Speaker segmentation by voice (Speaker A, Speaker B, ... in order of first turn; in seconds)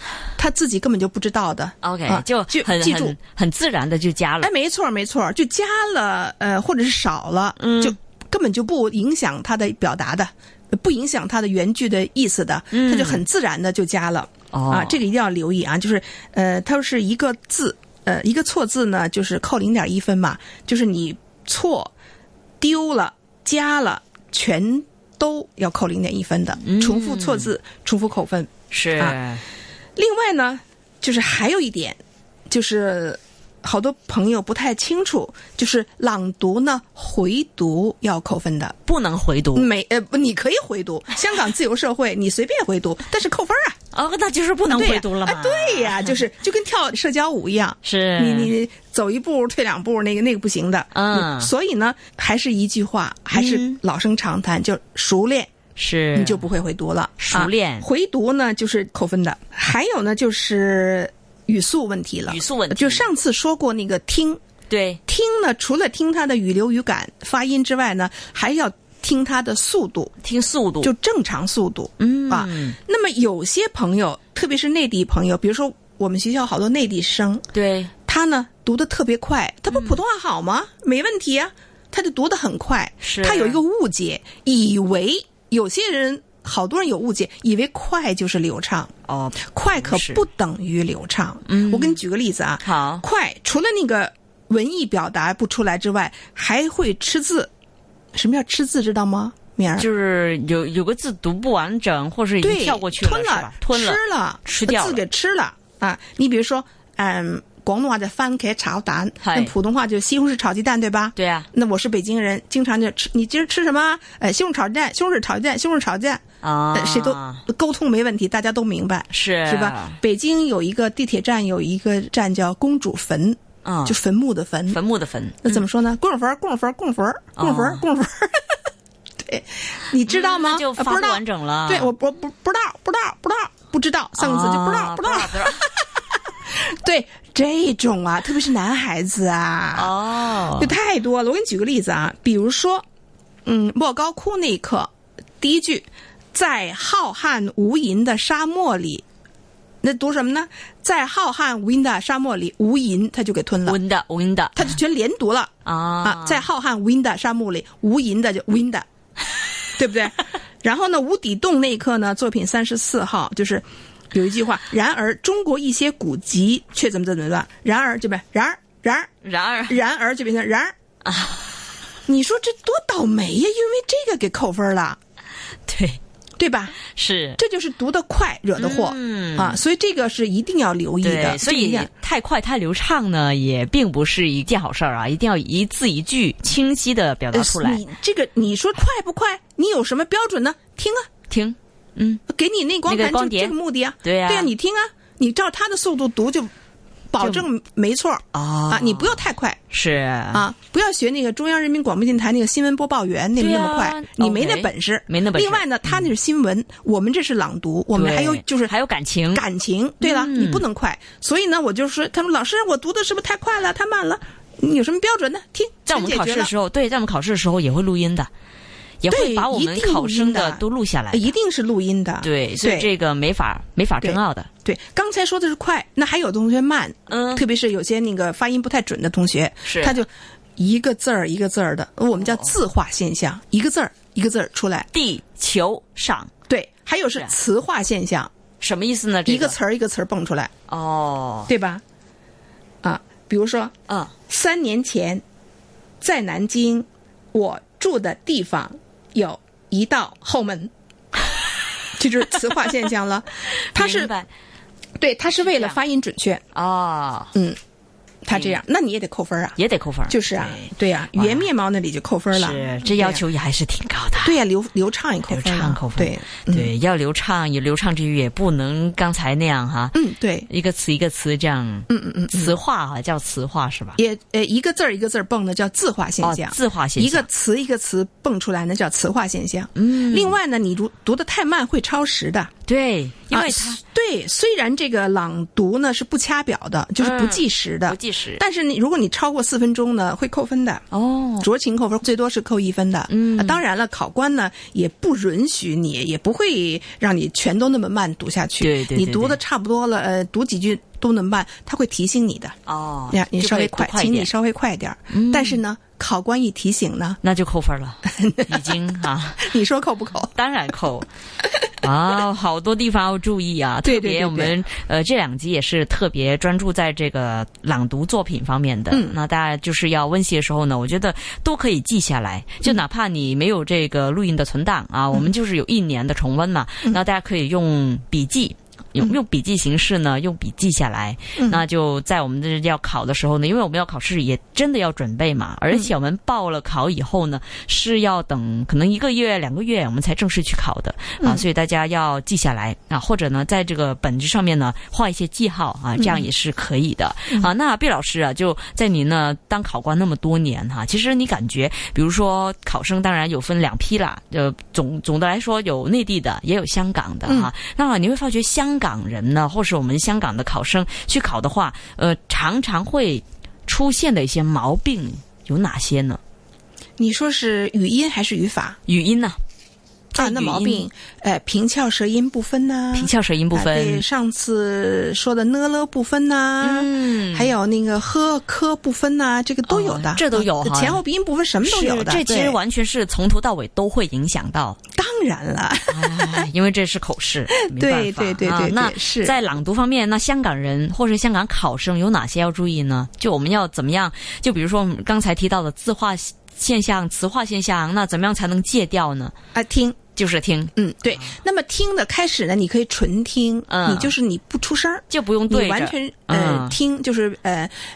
Speaker A: 0.4-3.2, 4.4-21.9, 22.6-29.2, 29.9-38.7, 39.5-43.8, 44.7-55.5, 56.1-64.4, 65.1-70.1, 70.8-77.4, 78.1-88.9, 89.5-97.5, 98.1-99.9, 102.4-116.2, 116.7-124.8, 125.4-128.6, 129.2-142.8, 143.4-149.0, 149.8-153.8, 154.5-158.8, 159.8-169.1, 169.7-170.7, 172.1-175.0, 176.4-176.7, 177.4-181.9, 187.3-191.0, 192.3-196.5, 197.1-199.6, 200.3-208.7, 209.3-216.5, 219.1-222.9, 224.0-234.9, 236.5-238.3, 239.2-240.5, 241.5-241.8, 242.8-243.7, 244.3-245.2, 246.0-250.7, 252.0-254.1, 255.0-256.4, 258.2-259.6, 260.1-263.2, 264.2-266.7, 269.9-270.5, 271.9-272.6, 274.0-282.5, 283.3-290.8, 291.4-302.6, 303.1-307.2, 308.1-308.8, 309.4-310.3, 313.8-314.6, 318.9-319.1, 346.0-346.3, 357.2-357.5, 367.0-368.8, 370.1-382.6, 384.9-386.4, 387.6-389.3, 399.5-400.0, 400.8-407.7
Speaker B: 1.8-4.5, 7.6-7.9, 12.7-13.2, 14.5-15.0, 26.6-27.5, 28.7-29.4, 38.8-39.7, 43.9-46.1, 47.8-48.5, 50.9-51.5, 53.3-53.8, 55.8-56.4, 57.2-57.9, 62.3-63.1, 64.7-65.0, 70.2-70.9, 72.0-72.8, 77.5-77.9, 79.7-80.0, 83.0-83.6, 89.1-90.2, 91.5-92.0, 92.6-93.0, 99.8-105.0, 109.2-109.5, 111.1-111.5, 116.4-117.4, 119.1-120.0, 123.6-124.0, 124.7-125.6, 127.3-127.8, 130.1-131.9, 134.1-135.7, 139.7-140.7, 153.6-154.8, 155.6-156.4, 169.2-169.8, 171.0-171.6, 175.7-176.0, 176.8-177.4, 178.6-179.6, 181.0-187.8, 191.3-192.2, 192.8-194.5, 197.2-197.5, 198.3-200.4, 203.3-206.1, 207.9-209.4, 210.0-210.6, 215.8-218.3, 219.0-221.3, 222.2-224.5, 227.1-227.4, 229.6-230.0, 232.2-232.6, 234.9-236.3, 238.6-239.6, 240.7-241.5, 243.9-244.1, 253.7-254.3, 255.4-255.8, 256.5-257.3, 258.3-258.6, 259.6-261.5, 262.3-264.4, 265.3-274.0, 276.2-277.2, 279.7-280.4, 282.7-283.8, 287.0-288.4, 290.9-291.5, 293.1-293.6, 298.6-299.4, 302.6-304.3, 305.1-305.6, 307.2-309.5, 310.3-311.1, 311.8-366.2, 368.9-369.4, 370.1-370.9, 372.9-374.0, 376.6-377.5, 379.6-381.0, 381.6-384.8, 385.9-399.3, 400.1-401.3, 403.7-404.1, 405.1-406.8